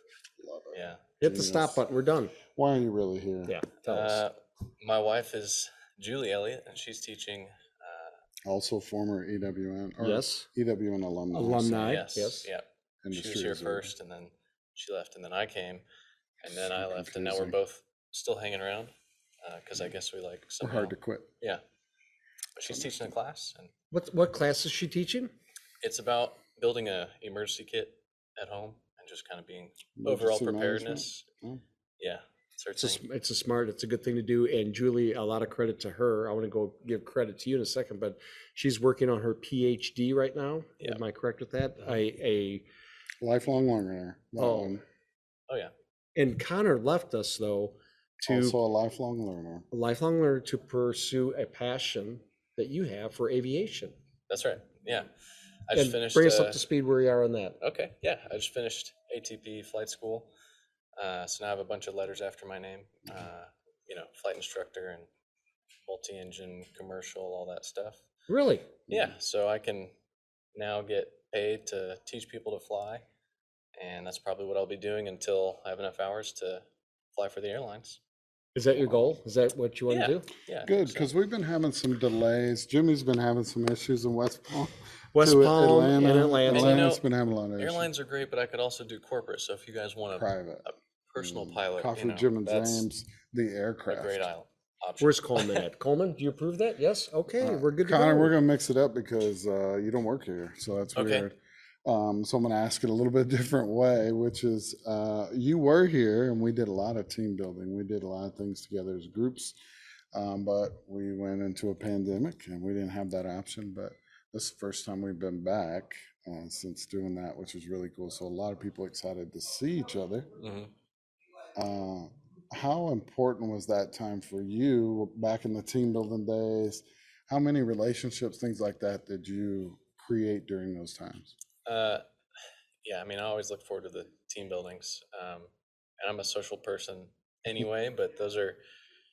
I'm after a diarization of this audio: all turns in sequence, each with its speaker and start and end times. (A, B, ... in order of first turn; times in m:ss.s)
0:00.4-0:01.8 A
0:00.7-0:01.0 B
0:01.2-0:02.3 C
0:02.5-0:03.6 A
0:03.5-0:04.2 C
0:03.8-0:08.2 B
0:08.4-0:12.0 A
0:10.0-0:10.5 C
0:11.3-0:12.5 C
0:11.8-0:15.8 B
0:13.0-0:13.9 A
0:16.4-0:18.9 B
0:16.5-0:17.6 A
0:19.4-0:21.6 B
0:20.6-0:21.3 A
0:22.6-0:23.7 B
0:22.7-0:23.1 A
0:23.9-0:25.3 C
0:25.8-0:31.3 B
0:30.0-0:31.6 A
0:32.0-0:33.0 B
0:32.8-0:42.6 C
0:43.2-0:44.8 A
0:44.4-0:44.8 C
0:46.2-0:48.6 C
0:48.2-0:49.6 A
0:49.7-0:54.0 C
0:54.3-0:55.1 B
0:55.7-0:56.6 B
0:55.7-0:57.6 C
0:57.6-1:00.3 B
1:01.0-1:05.1 B
1:05.8-1:08.0 B
1:08.3-1:08.7 C
1:08.9-1:09.9 B
1:08.9-1:09.1 A
1:10.5-1:13.0 B
1:13.8-1:18.0 B
1:18.5-1:20.3 C
1:19.9-1:21.1 B
1:20.6-1:27.9 A
1:25.1-1:26.9 C
1:26.5-1:27.0 B
1:27.6-1:32.8 B
1:30.1-1:30.6 A
1:31.2-1:34.3 A
1:33.9-1:35.6 B
1:35.0-1:38.4 C
1:37.4-1:49.6 A
1:40.9-1:41.3 B
1:50.1-2:00.3 A
2:00.4-2:00.7 B
2:01.6-2:11.3 A
2:11.6-2:12.0 B
2:12.8-2:18.6 B